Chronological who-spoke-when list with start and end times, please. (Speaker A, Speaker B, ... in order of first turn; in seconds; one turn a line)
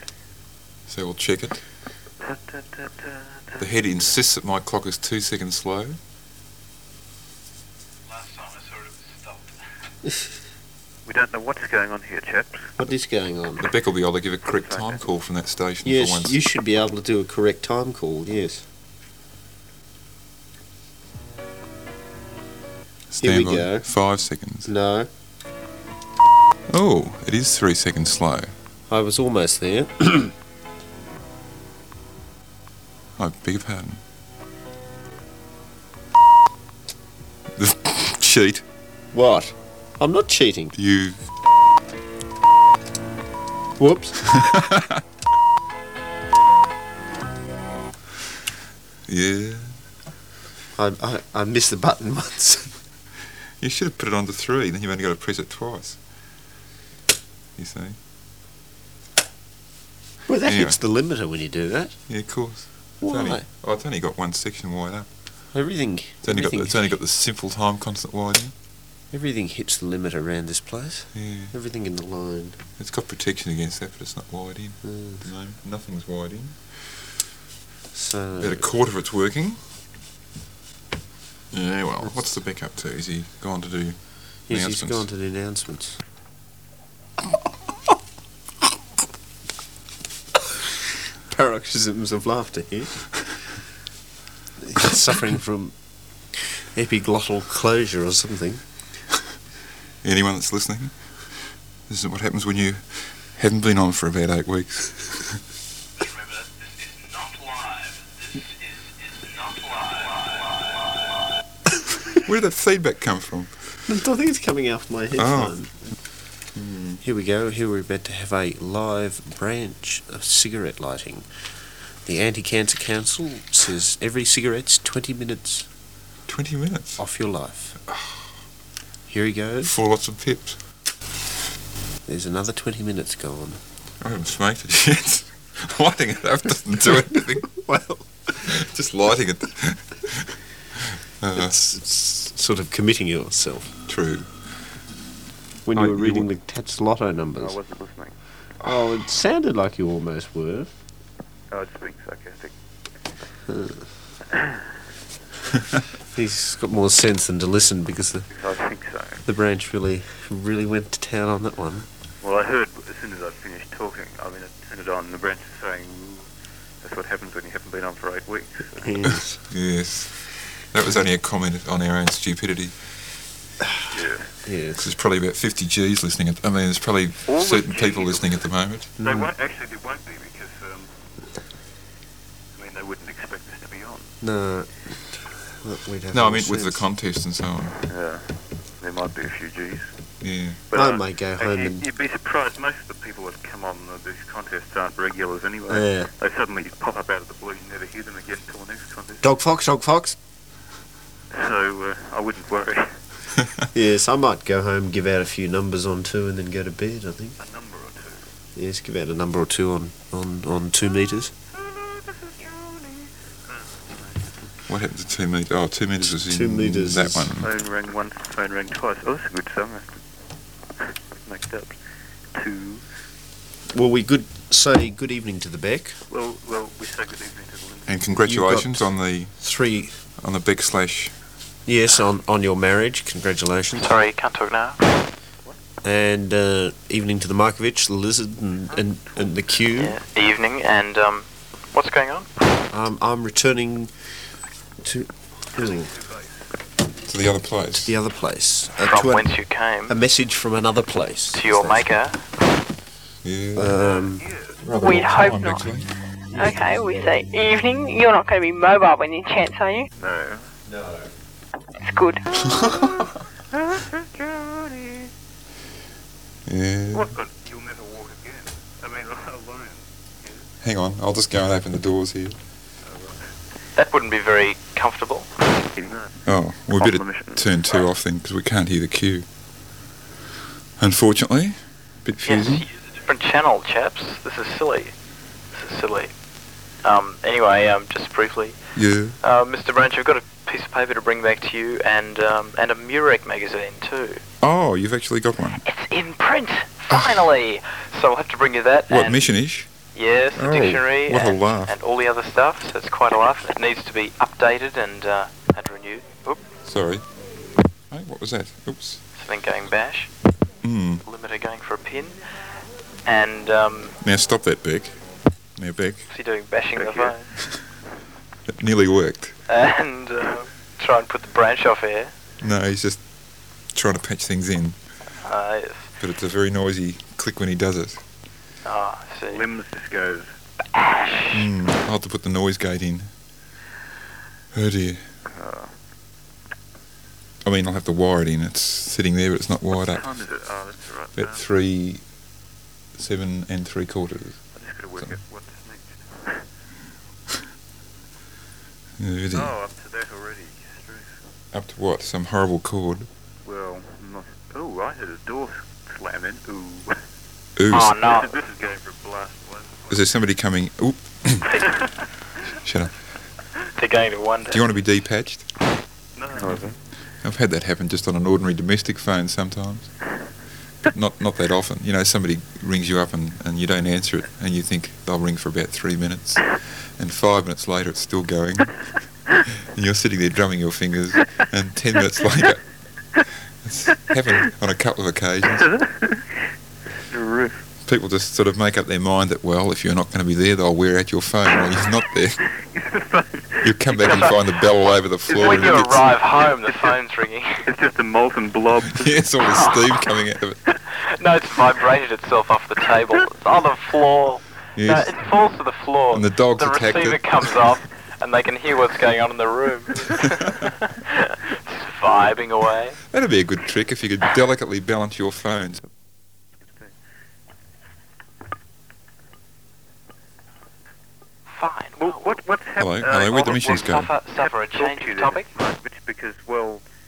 Speaker A: 0.9-1.6
Speaker B: 2.2-4.1
Speaker A: 3.6-6.0
Speaker C: 8.1-9.5
Speaker B: 11.1-12.7
Speaker D: 12.8-13.7
Speaker A: 13.6-16.4
Speaker B: 14.4-15.1
Speaker D: 15.8-18.6
Speaker A: 23.1-24.7
Speaker D: 23.2-23.9
Speaker D: 24.6-25.1
Speaker A: 26.7-28.5
Speaker D: 28.9-30.3
Speaker A: 33.2-34.0
Speaker A: 37.5-38.6
Speaker D: 39.1-40.7
Speaker A: 40.7-41.2
Speaker D: 43.8-44.4
Speaker A: 44.2-45.0
Speaker A: 49.1-49.8
Speaker D: 50.8-52.7
Speaker A: 53.6-56.0
Speaker A: 57.5-58.0
Speaker D: 60.3-62.0
Speaker A: 60.5-60.8
Speaker A: 62.1-65.1
Speaker D: 63.0-63.5
Speaker D: 65.5-66.9
Speaker A: 66.2-68.5
Speaker D: 69.1-72.6
Speaker A: 71.1-71.5
Speaker A: 72.8-76.8
Speaker D: 74.8-75.2
Speaker D: 77.9-78.7
Speaker A: 78.4-79.6
Speaker A: 81.5-85.1
Speaker D: 84.5-86.0
Speaker D: 91.3-93.1
Speaker D: 94.6-95.7
Speaker D: 96.4-98.6
Speaker A: 100.0-105.4
Speaker C: 107.1-107.9
Speaker C: 109.4-109.9
Speaker A: 112.2-113.8
Speaker D: 113.9-115.8
Speaker A: 115.2-115.6
Speaker A: 116.5-117.0
Speaker D: 117.0-121.2
Speaker D: 122.0-125.7
Speaker A: 126.2-127.0
Speaker D: 127.0-127.8
Speaker A: 127.9-128.2
Speaker D: 129.1-129.7
Speaker A: 129.6-130.6
Speaker D: 132.1-133.6
Speaker A: 134.0-137.5
Speaker D: 137.5-138.5
Speaker A: 138.4-141.6
Speaker D: 141.3-143.7
Speaker A: 143.9-144.5
Speaker D: 145.7-147.6
Speaker A: 145.7-146.3
Speaker B: 147.4-148.1
Speaker D: 148.6-150.7
Speaker B: 151.5-152.5
Speaker D: 153.5-153.9
Speaker B: 154.3-154.6
Speaker D: 156.1-158.3
Speaker B: 158.3-159.2
Speaker D: 159.2-161.9
Speaker B: 162.2-166.3
Speaker B: 166.8-168.9
Speaker D: 168.8-169.4
Speaker A: 169.1-172.7
Speaker B: 173.9-174.3
Speaker D: 174.4-174.8
Speaker A: 174.8-178.9
Speaker B: 177.2-178.4
Speaker B: 179.0-180.9
Speaker D: 179.0-179.3
Speaker B: 182.5-184.1
Speaker D: 184.2-186.8
Speaker A: 186.1-187.8
Speaker B: 187.8-188.3
Speaker B: 188.8-189.9
Speaker A: 190.2-190.6
Speaker B: 190.7-199.2
Speaker D: 190.7-191.8
Speaker D: 195.7-196.1
Speaker D: 199.2-200.2
Speaker B: 201.3-202.9
Speaker D: 203.7-207.4
Speaker B: 207.4-208.2
Speaker D: 208.6-211.3
Speaker B: 211.7-214.3
Speaker A: 214.7-217.5
Speaker D: 216.0-217.3
Speaker B: 217.4-220.0
Speaker B: 221.2-221.8
Speaker B: 222.3-222.8
Speaker D: 223.7-226.0
Speaker B: 226.1-228.0
Speaker A: 227.9-229.3
Speaker D: 228.2-230.0
Speaker A: 230.2-231.1
Speaker D: 231.7-233.9
Speaker C: 233.8-234.8
Speaker D: 235.8-240.0
Speaker B: 238.7-239.6
Speaker C: 239.8-242.3
Speaker D: 242.7-243.9
Speaker D: 244.8-245.9
Speaker B: 245.5-246.3
Speaker A: 247.0-247.9
Speaker D: 247.8-249.3
Speaker C: 248.8-249.9
Speaker D: 249.9-251.8
Speaker C: 251.3-252.2
Speaker A: 253.2-253.8
Speaker D: 253.6-254.2
Speaker B: 253.7-254.6
Speaker A: 254.6-255.9
Speaker E: 254.8-255.7
Speaker D: 256.3-257.0
Speaker E: 256.3-259.9
Speaker B: 260.0-260.5
Speaker D: 260.6-261.1
Speaker E: 261.8-262.2
Speaker A: 262.4-262.9
Speaker B: 262.7-263.0
Speaker B: 263.5-265.1
Speaker A: 266.4-267.1
Speaker B: 266.9-270.4
Speaker A: 270.6-272.4
Speaker B: 272.8-273.4
Speaker C: 273.8-275.3
Speaker B: 275.7-276.2
Speaker A: 276.2-279.2
Speaker B: 276.8-277.5
Speaker A: 280.8-282.6
Speaker C: 282.2-284.9
Speaker C: 285.5-286.1
Speaker C: 286.8-288.6
Speaker A: 288.8-289.2
Speaker C: 289.2-294.2
Speaker A: 294.4-295.6
Speaker C: 295.6-299.2
Speaker A: 298.9-299.7
Speaker C: 299.9-306.4
Speaker A: 300.4-301.7
Speaker A: 306.6-307.0
Speaker A: 307.9-309.0
Speaker C: 309.1-310.1
Speaker A: 310.6-311.0
Speaker C: 311.1-312.2
Speaker C: 313.1-314.0
Speaker A: 314.0-315.0
Speaker A: 315.6-316.1
Speaker C: 316.1-317.3
Speaker B: 316.8-317.1
Speaker A: 318.5-319.3
Speaker C: 319.5-322.1
Speaker A: 322.4-323.0
Speaker A: 323.7-324.8
Speaker C: 325.2-325.9
Speaker A: 326.0-328.0
Speaker C: 328.6-329.5
Speaker B: 329.3-330.3
Speaker C: 330.7-331.5
Speaker A: 331.3-333.1
Speaker A: 334.5-335.1
Speaker B: 335.2-335.7
Speaker A: 337.4-340.1
Speaker B: 339.7-341.4
Speaker A: 341.1-342.0
Speaker A: 342.9-344.4
Speaker B: 344.5-346.4
Speaker A: 349.0-349.5
Speaker B: 349.3-351.3
Speaker A: 351.5-353.1
Speaker B: 353.4-357.0
Speaker A: 357.6-357.9
Speaker C: 357.7-358.4
Speaker B: 357.9-360.1
Speaker A: 359.9-361.5
Speaker A: 362.6-362.9
Speaker C: 363.8-364.6
Speaker A: 364.5-365.5
Speaker B: 366.1-366.8
Speaker A: 367.2-369.9
Speaker A: 370.9-378.8
Speaker A: 379.5-382.6
Speaker A: 383.6-385.7
Speaker B: 385.4-386.3
Speaker B: 387.0-387.6
Speaker A: 387.8-392.4
Speaker B: 392.4-394.3
Speaker A: 393.6-396.0
Speaker C: 394.0-394.4
Speaker B: 395.3-396.1
Speaker C: 395.3-397.7
Speaker B: 396.6-397.0
Speaker B: 397.6-399.3
Speaker A: 398.9-400.6
Speaker C: 399.5-399.9
Speaker C: 401.0-413.0
Speaker A: 404.8-405.1
Speaker A: 406.1-407.2
Speaker A: 413.1-415.8
Speaker B: 416.6-416.9
Speaker C: 421.5-422.4
Speaker B: 422.0-426.8
Speaker A: 422.8-424.1
Speaker C: 423.2-425.5